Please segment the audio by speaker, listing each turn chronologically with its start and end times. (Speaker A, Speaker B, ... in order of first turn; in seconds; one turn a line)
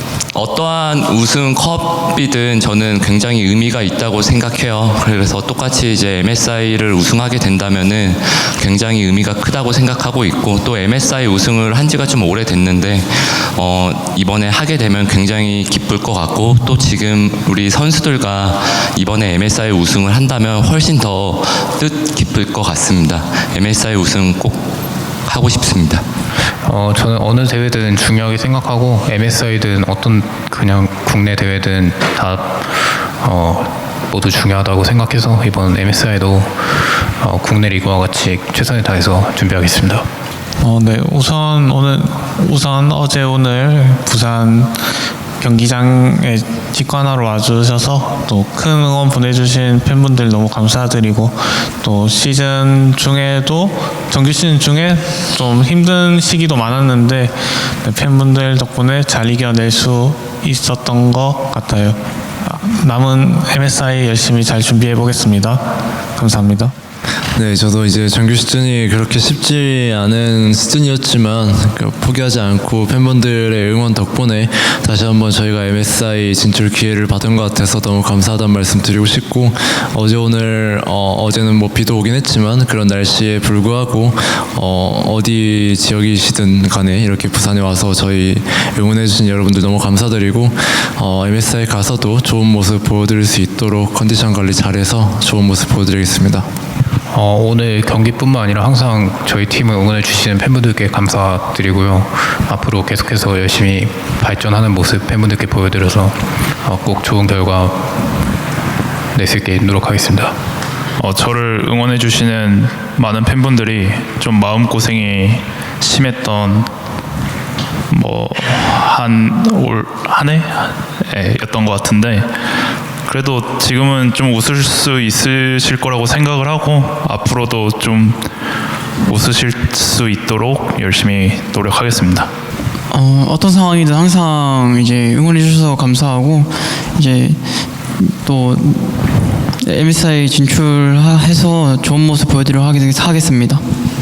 Speaker A: 0.3-24.6
Speaker A: 25.3-26.0
Speaker B: 26.6-40.0
Speaker C: 40.6-44.8
Speaker C: 45.4-65.6
Speaker C: 66.2-66.7
Speaker D: 67.3-96.5
Speaker B: 97.1-107.9
Speaker B: 109.1-110.3
Speaker E: 111.0-116.7
Speaker E: 117.9-122.3
Speaker E: 123.1-128.2
Speaker E: 129.1-132.3
Speaker F: 132.9-137.4
Speaker F: 138.0-143.6